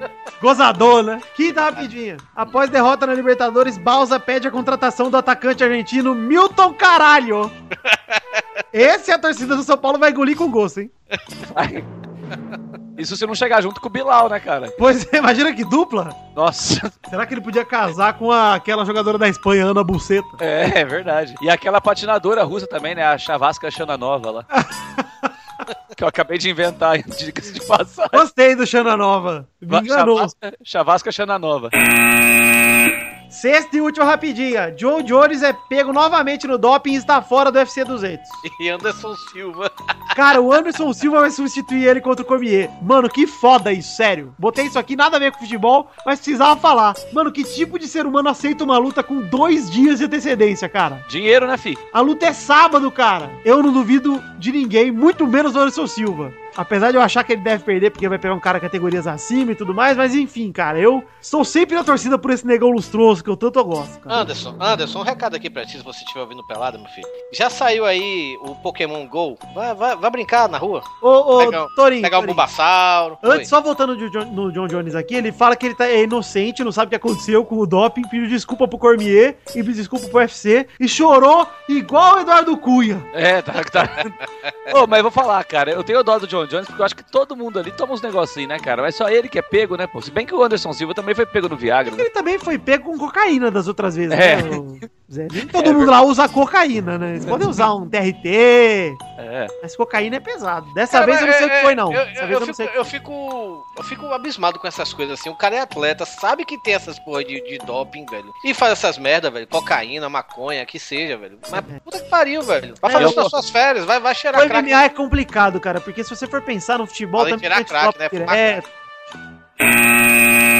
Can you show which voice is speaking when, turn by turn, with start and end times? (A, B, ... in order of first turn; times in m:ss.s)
0:00.4-0:07.5 A
0:08.7-0:10.9 A
0:11.5-0:11.9 B
0:13.0-0:14.7 B
0:14.8-0:16.2 A
0:16.4-0:16.9 B
0:17.1-0:20.4 A
0:20.4-0:24.5 B
0:24.5-0:25.0 A
0:26.0-0:28.2 B
0:28.1-0:30.3 A
0:29.7-0:31.7 B
0:33.3-0:38.4 A
0:38.4-0:39.7 C
0:40.1-0:51.0 A
0:51.1-0:51.8 B
0:51.9-1:04.3 A
1:04.1-1:13.5 C
1:11.0-1:12.4 A
1:13.2-1:23.1 A
1:23.1-1:24.1 B
1:24.7-1:32.1 B
1:31.9-1:39.0 A
1:34.1-1:34.6 B
1:35.4-1:35.9 B
1:39.2-1:39.5 B
1:39.6-1:42.9 A
1:40.9-1:54.8 C
1:52.8-1:53.2 A
1:53.0-1:53.3 B
1:54.3-1:58.6 A
1:57.2-1:58.6 C